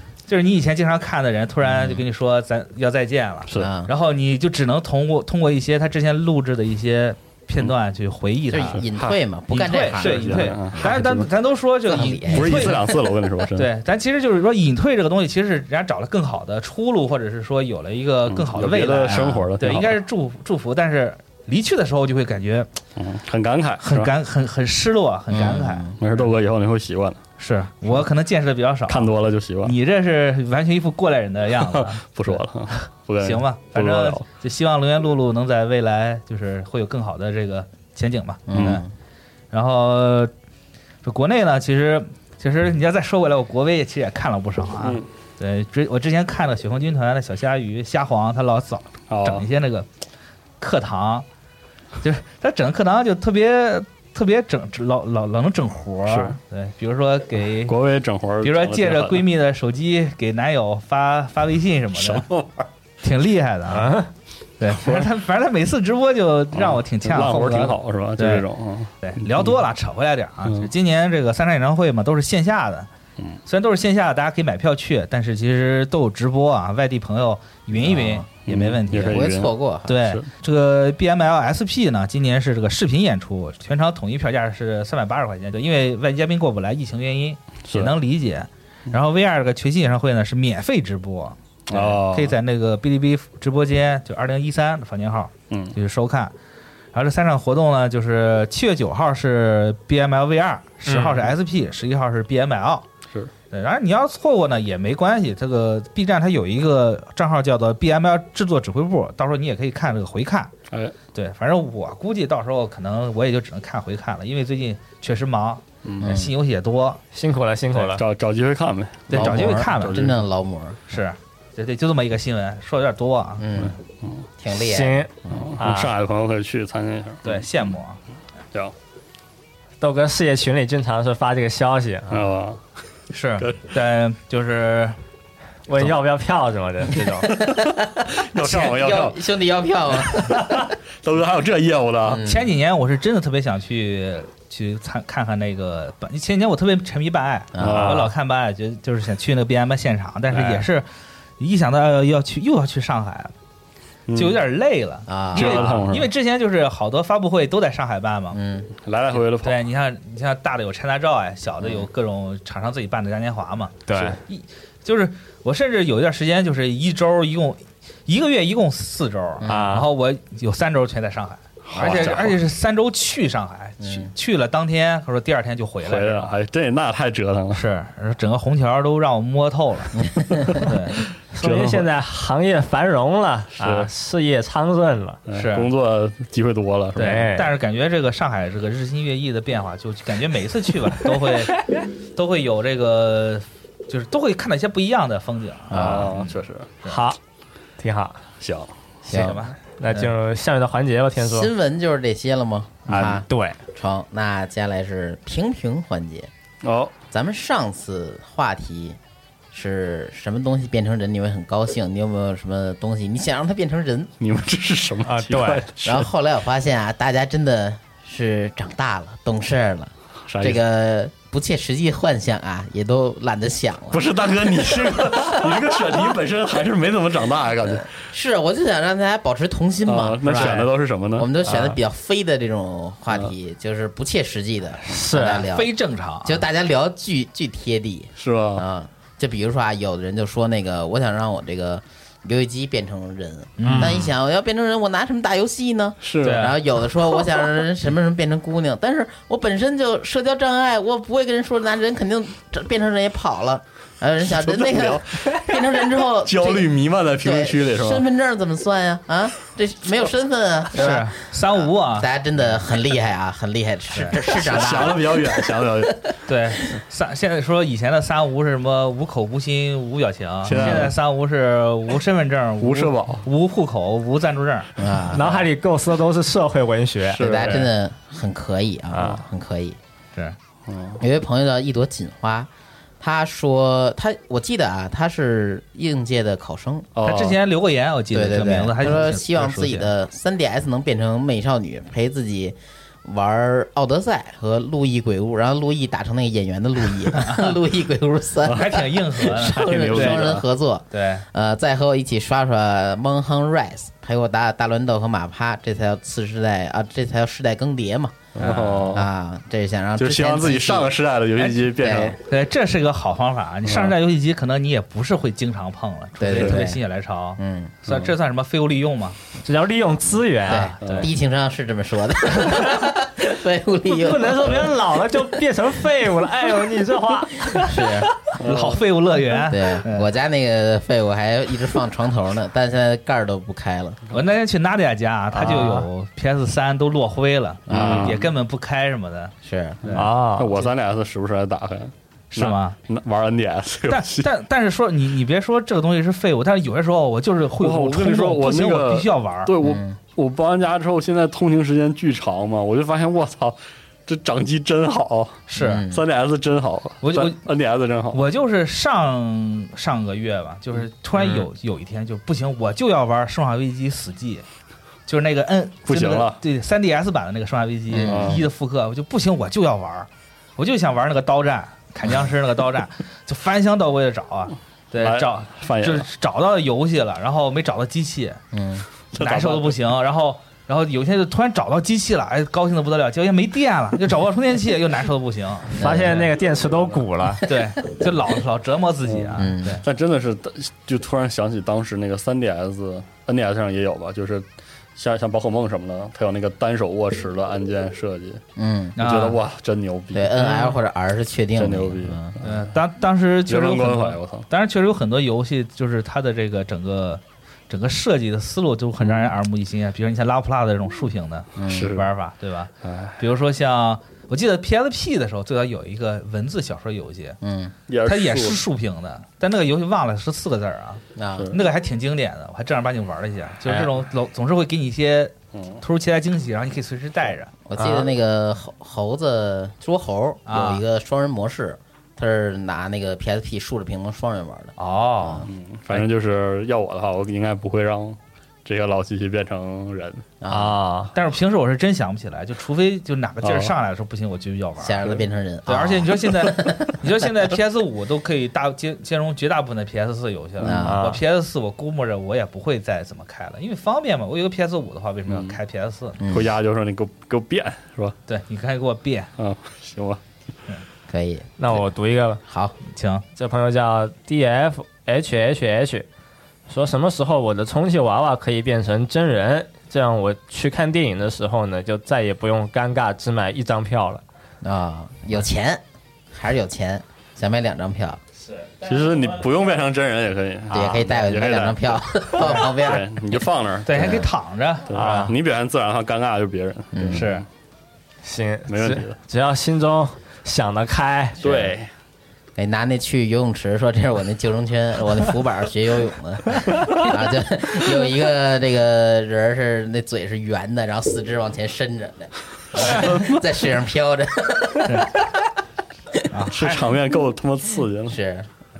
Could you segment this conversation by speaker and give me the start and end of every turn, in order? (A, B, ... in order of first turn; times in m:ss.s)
0:00.3-0:08.8 A
0:01.7-0:02.0 B
0:03.5-0:03.9 B
0:08.5-0:11.0 B
0:08.7-0:09.1 C
0:09.5-0:13.0 A
0:10.0-0:11.2 C
0:11.9-0:12.8 B
0:12.3-0:13.7 C
0:13.6-0:22.7 A
0:18.3-0:19.9 C
0:19.1-0:19.5 B
0:23.0-0:24.1 C
0:23.8-0:26.3 A
0:25.3-0:26.0 B
0:26.0-0:27.2 C
0:27.4-0:38.8 A
0:28.9-0:29.7 C
0:31.6-0:34.2 C
0:38.5-0:38.9 B
0:38.5-0:38.8 C
0:39.5-0:40.3 A
0:41.0-0:49.9 A
0:49.1-0:49.4 C
0:50.6-0:51.2 A
0:52.0-0:57.7 A
0:56.1-0:56.4 C
0:57.7-0:59.2 C
0:58.4-1:02.2 A
1:01.9-1:02.7 C
1:03.0-1:04.0 A
1:03.7-1:04.1 D
1:04.6-1:08.4 A
1:06.5-1:09.5 C
1:09.0-1:12.9 A
1:13.5-1:19.3 A
1:17.8-1:18.3 B
1:18.5-1:19.5 C
1:19.0-1:20.0 B
1:19.8-1:36.3 A
1:31.7-1:32.3 C
1:35.5-1:35.8 C
1:36.9-1:42.8 A
1:40.8-1:41.3 D
1:43.5-1:50.5 A
1:51.1-1:57.0 A
1:55.8-1:56.1 C
1:56.0-1:56.3 B
1:57.1-1:58.0 D
1:57.9-2:00.1 C
1:59.1-2:00.1 A
1:59.1-2:00.8 B
2:00.9-2:03.6 A
2:03.4-2:03.8 B
2:03.6-2:04.2 C
2:04.4-2:05.5 B
2:04.5-2:05.9 D
2:05.3-2:07.4 C
2:07.2-2:08.0 A
2:09.8-2:12.2 D
2:12.1-2:12.6 C
2:13.1-2:15.0 A
2:15.7-2:17.3 D
2:17.2-2:20.5 B
2:17.4-2:19.2 C
2:21.0-2:22.2 C
2:22.0-2:22.5 B
2:22.2-2:30.9 A
2:27.5-2:28.1 B
2:27.6-2:28.1 C
2:30.3-2:30.6 C
2:31.4-2:33.3 A
2:34.1-2:34.4 C
2:34.1-2:38.4 A
2:35.1-2:35.7 B
2:35.3-2:36.1 C
2:38.3-2:38.7 B
2:38.8-2:39.6 C
2:39.4-2:56.3 A
2:41.6-2:41.9 B
2:43.9-2:44.2 D
2:49.4-2:49.7 B
2:49.5-2:49.8 D
2:51.7-2:52.3 C
2:51.7-2:52.2 B
2:53.8-2:54.1 B
2:55.8-2:57.6 C
2:57.5-3:01.0 A
3:00.0-3:00.6 B
3:01.3-3:05.2 D
3:01.4-3:01.9 C
3:03.6-3:03.9 C
3:05.3-3:07.2 C
3:05.3-3:05.7 A
3:07.0-3:11.6 A
3:07.0-3:07.5 D
3:12.1-3:17.0 A
3:15.7-3:16.1 B
3:15.7-3:16.7 C
3:16.8-3:17.2 D
3:17.8-3:18.2 D
3:18.4-3:18.7 C
3:19.1-3:20.1 A
3:19.1-3:19.4 B
3:19.8-3:21.5 D
3:21.2-3:26.3 B
3:22.9-3:23.6 D
3:26.6-3:26.9 C
3:27.1-3:29.0 B
3:29.5-3:34.1 B
3:34.2-3:36.1 C
3:35.0-3:35.6 D
3:35.8-3:44.1 B
3:40.3-3:40.6 C
3:43.9-3:47.9 C
3:44.6-3:45.9 B
3:47.6-3:55.7 B
3:49.8-3:51.3 C
3:50.3-3:50.7 A
3:51.5-3:51.8 D
3:54.8-3:55.5 D
3:55.4-3:56.4 A
3:56.2-4:26.1 B
3:58.2-3:58.6 C
4:03.6-4:04.1 A
4:03.6-4:04.1 D
4:06.0-4:06.5 C
4:06.2-4:06.6 A
4:14.2-4:15.4 C
4:16.2-4:18.0 C
4:20.7-4:22.1 A
4:23.9-4:24.2 A
4:24.3-4:25.9 C
4:26.3-4:35.4 A
4:30.4-4:30.9 C
4:30.5-4:30.8 B
4:32.6-4:33.2 C
4:34.8-4:35.2 B
4:35.1-4:37.2 D
4:37.1-4:37.7 C
4:37.1-4:39.8 B
4:40.7-4:41.0 C
4:41.0-4:46.9 B
4:47.0-4:47.4 C
4:47.0-4:49.9 A
4:48.1-5:08.3 B
4:57.2-4:57.5 A
4:58.4-5:00.3 A
4:59.4-5:00.4 D
5:00.9-5:01.2 A
5:08.4-5:09.1 C
5:08.4-5:09.0 A
5:08.9-5:11.0 B
5:10.0-5:12.2 C
5:11.4-5:11.7 A
5:11.7-5:12.2 B
5:12.2-5:19.2 A
5:13.6-5:13.9 C
5:16.2-5:16.8 B
5:16.3-5:16.6 C
5:17.4-5:17.8 B
5:17.9-5:18.1 C
5:19.4-5:20.7 D
5:20.4-5:24.7 B
5:20.5-5:21.1 A
5:20.8-5:21.1 C
5:23.9-5:27.7 D
5:27.5-5:28.1 B
5:28.4-5:28.8 C
5:28.4-5:30.1 A
5:29.5-5:34.0 B
5:34.1-5:39.3 A
5:35.3-5:35.9 D
5:37.7-5:38.2 B
5:37.7-5:38.2 C
5:39.4-5:39.9 B
5:39.9-5:44.3 C
5:39.9-5:40.5 D
5:42.3-5:42.8 A
5:43.9-5:49.5 A
5:47.6-5:58.2 C
5:49.6-5:50.0 B
5:55.5-5:55.9 A
5:55.6-5:56.0 B
5:57.0-5:57.4 A
5:58.1-6:04.4 A
6:01.2-6:01.5 C
6:05.1-6:18.4 A
6:05.9-6:06.4 C
6:07.9-6:08.4 B
6:08.0-6:08.4 C
6:15.0-6:16.0 C
6:18.5-6:18.8 B
6:19.1-6:19.8 C
6:19.2-6:25.7 A
6:25.7-6:27.4 D
6:25.8-6:26.2 B
6:26.1-6:27.0 C
6:27.4-6:29.8 A
6:29.1-6:38.4 C
6:29.4-6:29.8 B
6:38.6-6:39.0 B
6:39.0-6:39.4 A
6:39.0-6:40.4 C
6:40.1-6:42.4 B
6:40.4-6:40.8 A
6:41.6-6:42.2 C
6:42.4-6:57.4 A
6:43.5-6:44.4 C
6:49.0-6:49.3 C
6:51.6-6:51.9 B
6:51.6-6:52.1 C
6:52.8-6:53.2 C
6:57.4-6:57.7 B
6:57.9-6:58.6 C
6:58.0-7:07.5 A
7:01.2-7:01.5 B
7:03.6-7:03.9 D
7:07.7-7:15.4 B
7:07.8-7:08.1 D
7:10.4-7:10.8 A
7:14.8-7:16.0 A
7:15.5-7:20.2 C
7:20.4-7:20.7 B
7:20.5-7:21.1 D
7:21.1-7:36.2 A
7:23.4-7:23.7 C
7:24.8-7:27.0 B
7:30.6-7:31.0 B
7:30.8-7:31.2 D
7:35.3-7:35.6 C
7:36.2-7:36.5 B
7:36.3-7:38.1 C
7:38.3-7:39.3 A
7:39.4-7:40.2 C
7:41.1-7:41.5 B
7:41.6-7:42.4 D
7:42.4-7:42.8 B
7:42.9-7:43.2 A
7:43.4-7:46.1 D
7:46.7-7:54.2 D
7:54.6-7:58.2 B
7:58.8-8:04.2 C
8:00.7-8:03.4 B
8:03.9-8:05.3 A
8:03.9-8:04.3 B
8:04.9-8:07.4 C
8:06.9-8:07.3 B
8:07.1-8:07.4 A
8:08.2-8:11.7 D
8:08.7-8:09.2 C
8:11.4-8:11.9 C
8:12.6-8:25.1 B
8:22.8-8:23.1 A
8:22.8-8:23.4 C
8:24.8-8:25.2 A
8:26.3-8:27.0 A
8:26.5-8:28.2 C
8:28.1-8:28.5 B